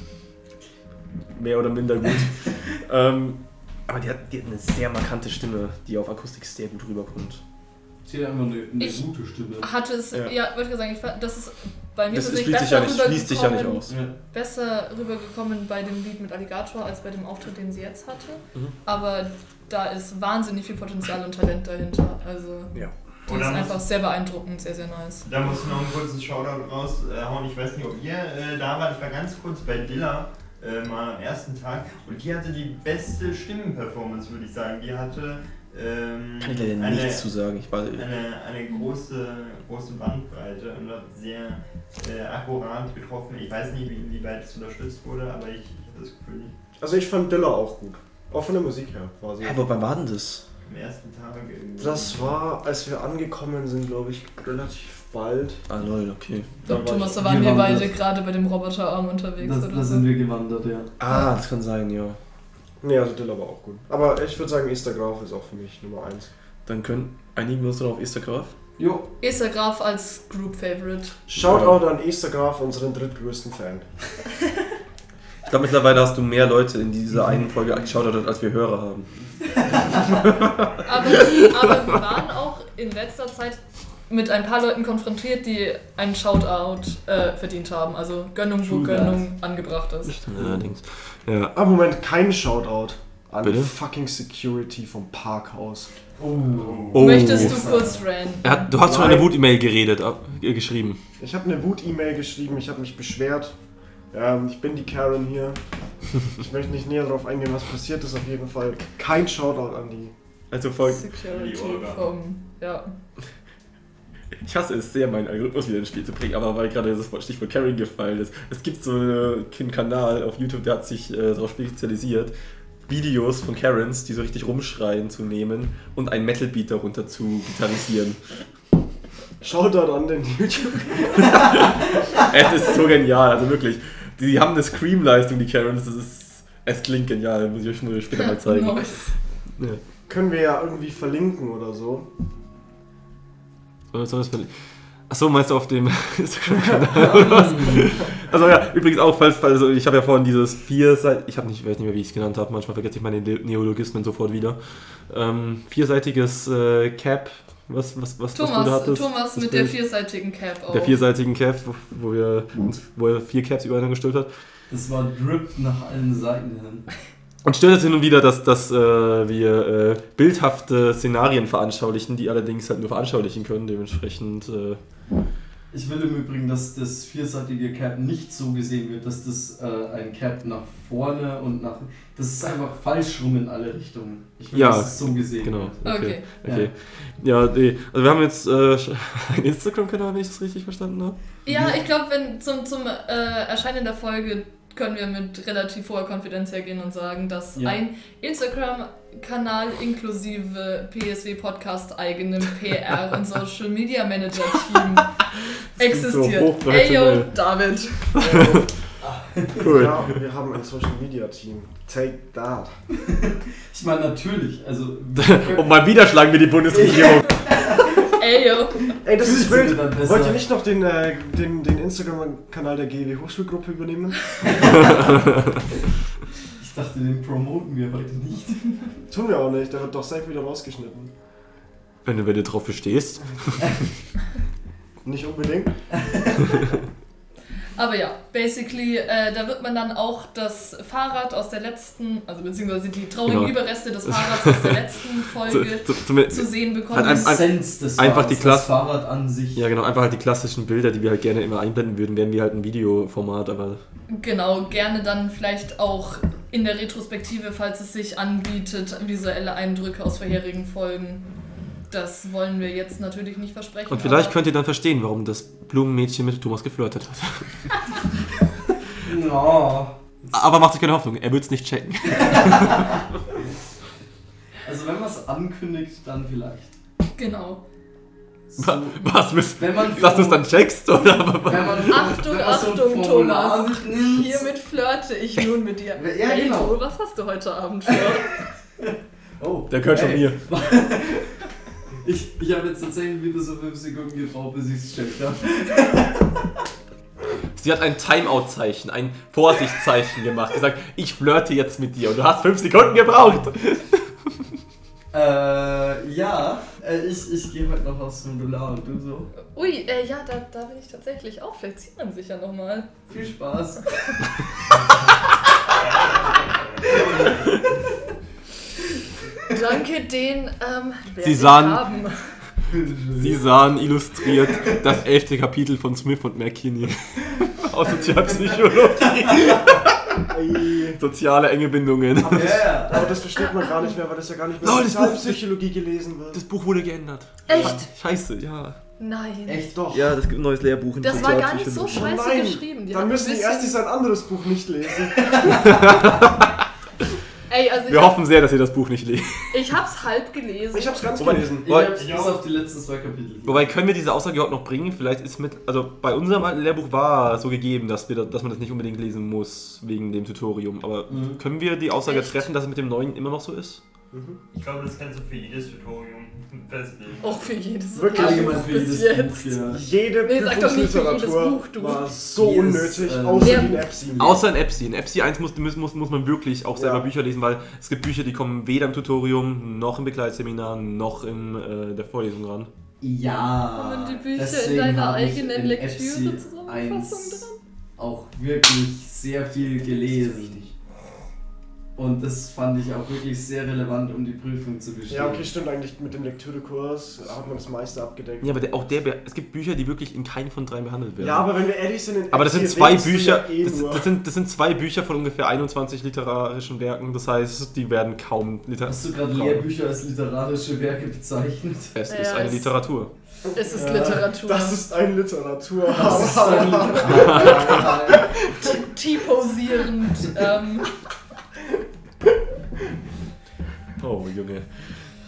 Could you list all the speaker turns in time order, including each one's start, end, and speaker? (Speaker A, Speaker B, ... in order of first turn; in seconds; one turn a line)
Speaker A: 1.4-7.4
Speaker B: 8.1-9.7
Speaker C: 9.6-22.8
Speaker A: 12.1-14.0
Speaker B: 13.9-14.1
Speaker D: 23.3-23.8
Speaker C: 23.3-25.3
Speaker D: 25.2-37.3
Speaker A: 36.4-38.1
Speaker D: 37.9-46.5
Speaker E: 46.8-49.7
Speaker A: 49.4-50.4
Speaker D: 50.7-52.3
Speaker E: 51.8-55.6
Speaker A: 55.7-56.7
Speaker C: 56.7-60.1
Speaker B: 56.7-57.9
Speaker B: 59.4-60.9
Speaker A: 61.0-62.2
Speaker E: 62.8-66.3
Speaker A: 66.7-68.5
Speaker B: 68.8-69.1
Speaker C: 69.2-71.2
Speaker E: 71.3-73.9
Speaker A: 71.4-71.8
Speaker A: 75.5-79.1
Speaker A: 80.1-81.9
Speaker C: 80.8-90.2
Speaker B: 88.6-89.3
Speaker A: 90.1-91.5
Speaker E: 91.5-95.9
Speaker A: 93.4-93.7
Speaker B: 96.2-98.0
Speaker D: 96.6-97.1
Speaker A: 96.9-97.6
Speaker C: 96.9-98.7
Speaker A: 98.4-101.0
Speaker E: 98.8-99.3
Speaker E: 101.2-103.5
Speaker E: 104.1-105.6
Speaker E: 106.3-110.1
Speaker A: 110.5-111.1
Speaker C: 110.8-112.9
Speaker D: 111.2-112.1
Speaker A: 114.4-122.3
Speaker A: 122.9-128.2
Speaker E: 129.4-131.6
Speaker A: 131.2-139.0
Speaker C: 138.2-139.2
Speaker E: 140.1-142.1
Speaker A: 143.9-144.5
Speaker A: 145.1-159.7
Speaker B: 146.9-147.8
Speaker C: 158.3-161.0
Speaker A: 160.7-164.3
Speaker B: 164.7-166.9
Speaker A: 167.4-174.8
Speaker B: 175.7-186.7
Speaker A: 184.5-191.2
Speaker C: 185.8-186.3
Speaker C: 191.5-205.2
Speaker B: 191.5-191.8
Speaker C: 205.8-208.2
Speaker A: 205.8-207.3
Speaker A: 208.2-208.7
Speaker E: 208.2-208.6
Speaker B: 209.0-209.8
Speaker A: 209.6-210.2
Speaker E: 209.7-212.7
Speaker B: 213.0-215.8
Speaker A: 215.2-217.5
Speaker B: 216.7-218.2
Speaker C: 217.9-218.9
Speaker E: 219.0-224.4
Speaker B: 219.2-220.4
Speaker B: 224.5-224.8
Speaker A: 224.6-225.5
Speaker B: 226.5-229.0
Speaker E: 229.1-231.1
Speaker A: 232.1-233.7
Speaker E: 235.0-235.8
Speaker B: 235.9-236.6
Speaker C: 237.8-247.4
Speaker A: 243.3-244.8
Speaker A: 245.4-248.8
Speaker B: 247.0-249.7
Speaker A: 249.6-253.8
Speaker C: 254.1-261.2
Speaker C: 261.9-264.4
Speaker A: 263.9-267.6
Speaker B: 269.0-270.4
Speaker A: 270.3-272.9
Speaker B: 272.1-273.0
Speaker B: 274.6-276.8
Speaker C: 277.2-277.6
Speaker B: 278.5-280.5
Speaker A: 278.6-282.0
Speaker B: 281.4-284.4
Speaker C: 281.8-288.4
Speaker B: 285.9-286.8
Speaker B: 288.8-291.4
Speaker A: 289.7-290.4
Speaker B: 292.0-296.4
Speaker A: 297.6-304.1
Speaker B: 305.1-309.3
Speaker C: 309.5-312.9
Speaker B: 313.1-314.0
Speaker B: 316.8-317.5
Speaker C: 319.5-322.4
Speaker A: 321.2-321.8
Speaker B: 322.7-323.3
Speaker A: 323.2-332.6
Speaker B: 327.4-329.6
Speaker E: 330.2-331.0
Speaker E: 332.2-336.4
Speaker B: 332.2-333.2
Speaker A: 334.6-335.4
Speaker A: 336.3-338.8
Speaker C: 337.5-337.9
Speaker C: 339.0-339.8
Speaker B: 339.5-339.8
Speaker E: 339.8-340.1
Speaker A: 339.9-342.1
Speaker C: 341.0-343.8
Speaker E: 341.9-345.5
Speaker B: 345.2-345.6
Speaker A: 345.4-346.6
Speaker C: 347.5-348.2
Speaker A: 347.8-349.7
Speaker C: 349.5-351.3
Speaker E: 350.7-351.7
Speaker A: 351.2-351.9
Speaker B: 351.6-353.8
Speaker D: 351.9-352.4
Speaker A: 353.5-363.8
Speaker B: 361.1-361.4
Speaker C: 362.1-362.5
Speaker E: 364.1-364.4
Speaker D: 364.5-367.5
Speaker C: 367.2-369.7
Speaker E: 367.9-368.7
Speaker B: 368.1-369.9
Speaker E: 369.7-374.4
Speaker C: 370.2-372.1
Speaker B: 372.3-374.4
Speaker C: 373.4-373.8
Speaker A: 374.2-382.7
Speaker E: 376.8-377.1
Speaker B: 383.0-387.4
Speaker C: 383.8-387.6
Speaker B: 388.0-390.7
Speaker B: 392.0-395.5
Speaker E: 395.1-398.6
Speaker A: 398.4-401.5
Speaker E: 401.2-404.1
Speaker A: 402.3-409.6
Speaker B: 408.9-412.0
Speaker A: 411.9-413.1
Speaker C: 412.1-412.7
Speaker C: 413.5-414.8
Speaker E: 413.7-417.8
Speaker B: 415.9-418.3
Speaker A: 417.3-417.6
Speaker C: 418.1-420.9
Speaker A: 424.0-424.9